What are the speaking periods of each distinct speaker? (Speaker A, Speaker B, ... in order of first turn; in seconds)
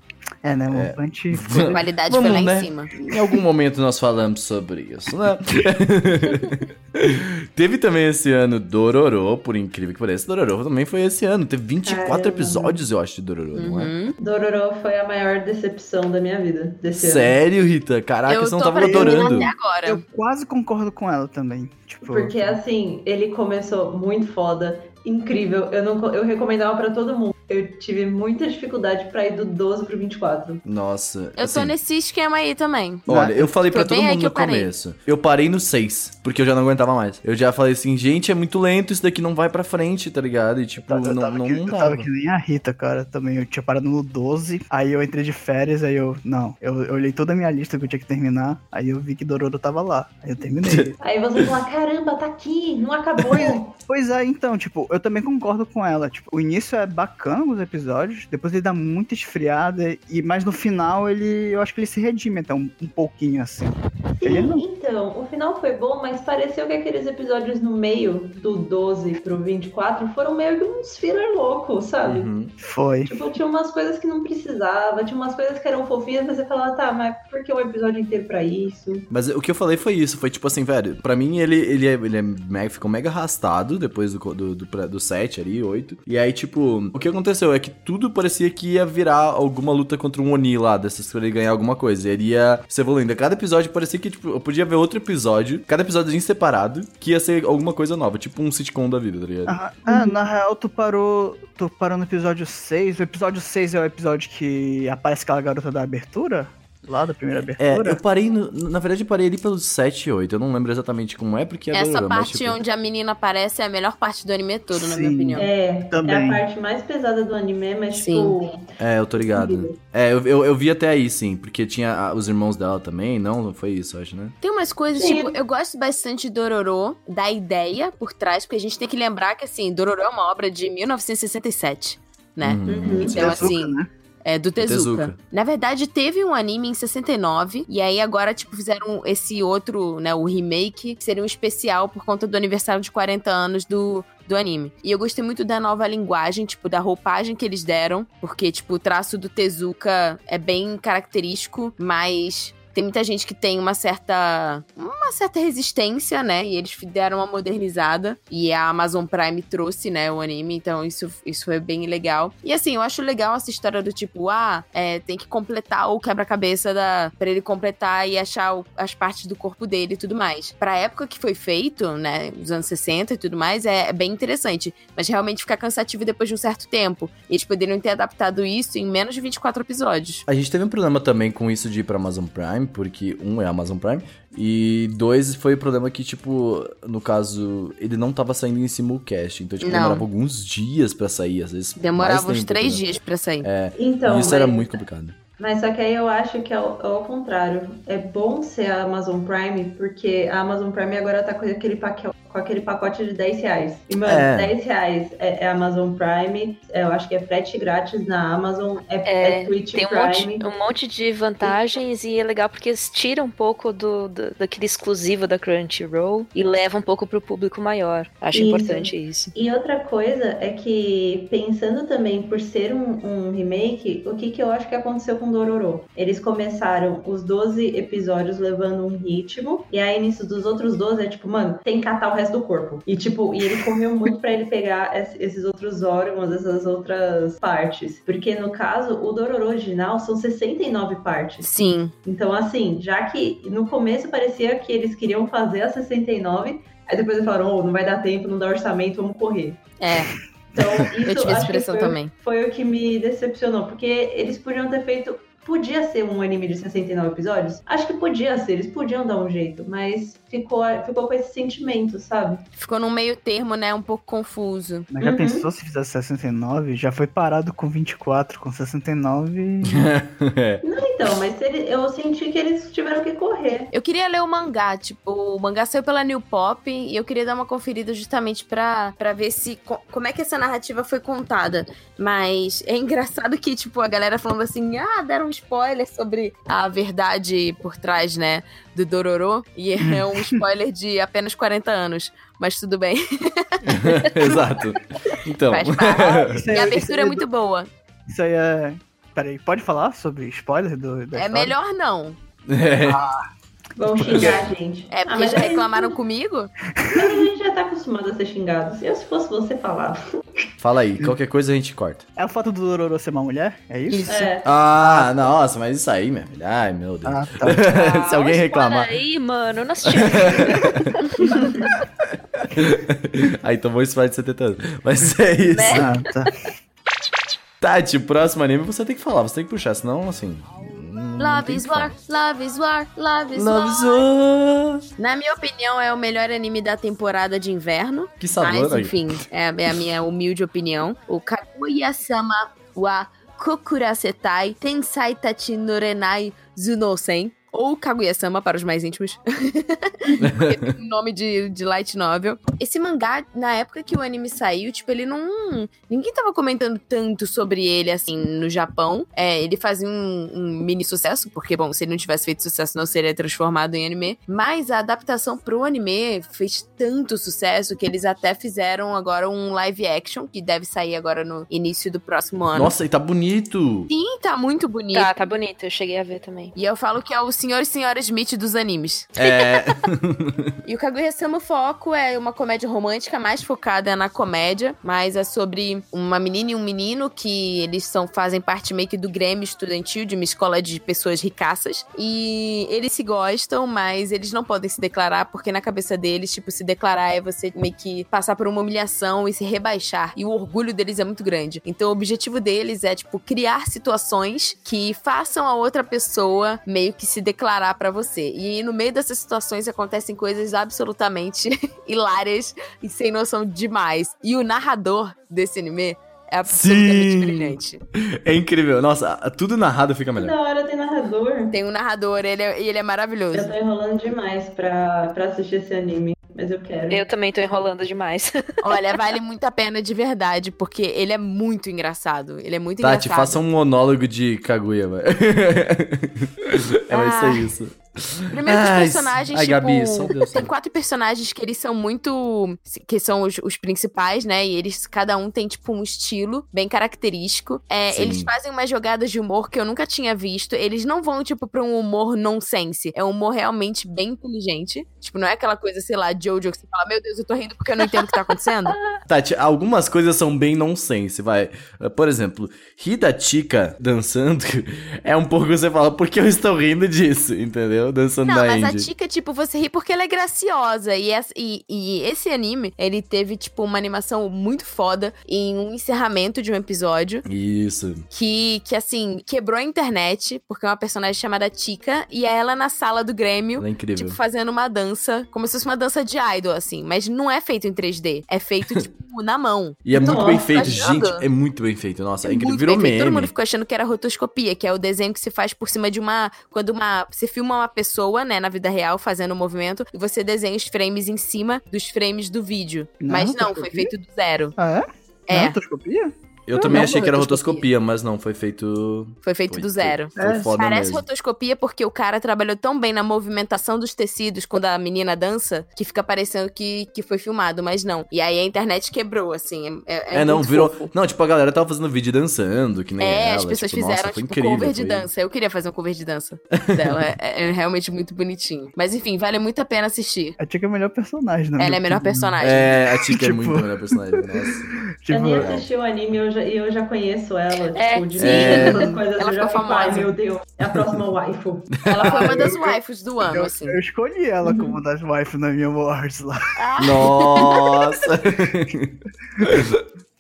Speaker A: 0.4-1.8, 18.8-22.6, 33.1-33.5, 40.8-51.0, 53.3-64.6, 72.6-73.2, 99.5-108.0, 114.7-116.4, 133.1-133.9, 264.9-269.9, 289.8-290.4, 296.1-297.3, 298.1-301.6, 302.8-303.2, 303.9-304.5, 306.8-307.3, 312.2-315.3, 317.1-317.6, 325.7-326.3, 503.0-503.9, 504.6-507.0, 510.2-510.5, 530.4-532.4, 532.9-535.6, 542.0-546.5
Speaker B: 0.7-13.9, 16.9-19.5, 30.6-31.8, 33.1-42.1, 50.6-51.5, 72.0-72.5, 79.1-99.6, 107.6-112.6, 118.8-124.4, 132.4-133.5, 134.6-135.2, 180.3-192.8, 193.4-195.2, 204.0-204.6, 269.7-270.6, 293.6-296.5, 302.5-303.1, 310.6-312.1, 314.4-318.9, 319.9-321.0, 322.5-325.9, 327.6-331.9, 333.4-334.9, 338.2-338.9, 350.2-350.7, 372.5-373.9, 379.2-380.5, 416.5-420.4, 432.8-440.5, 447.9-448.3, 459.1-468.9, 477.2-478.1, 483.6-484.2, 489.9-493.3, 506.5-511.1, 520.1-525.1, 526.5-527.0, 532.4-534.8, 535.4-535.7, 538.2-538.9, 546.8-549.8
Speaker C: 1.7-2.9, 13.5-14.2, 18.3-20.0, 31.4-33.1, 33.6-34.7, 111.7-115.5, 117.9-118.4, 124.4-180.2, 189.6-190.1, 191.8-193.5, 241.4-241.9, 249.8-250.1, 251.0-252.1, 262.6-264.9, 273.7-294.3, 295.5-297.7, 301.1-302.2, 304.9-306.5, 313.9-314.3, 331.2-334.1, 335.0-372.7, 373.9-375.1, 376.6-379.2, 380.6-417.8, 421.5-423.5, 428.6-433.4, 436.9-437.5, 438.3-458.8, 468.2-477.2, 478.1-491.2, 492.2-504.6, 505.3-505.6, 506.6-507.6, 509.2-520.9, 523.0-530.4, 531.6-532.7, 538.2-540.1, 541.9-543.8, 546.6-547.7
Speaker D: 11.8-12.8, 14.2-17.4, 22.1-30.6, 51.0-53.7, 64.2-72.3, 73.1-79.1, 115.4-119.8, 124.9-125.3, 132.7-133.1, 193.8-194.8, 195.4-210.5, 218.3-241.5, 242.0-249.7, 250.5-262.4, 265.0-265.5, 270.6-273.7, 303.8-306.0, 306.9-310.2, 314.1-314.5, 420.2-421.5, 423.3-427.0, 489.9-490.8, 535.1-542.5, 544.4-544.8
Speaker E: 209.1-219.3, 317.7-321.8, 325.5-326.3, 374.9-376.5, 379.2-379.7, 426.9-428.8, 537.8-538.0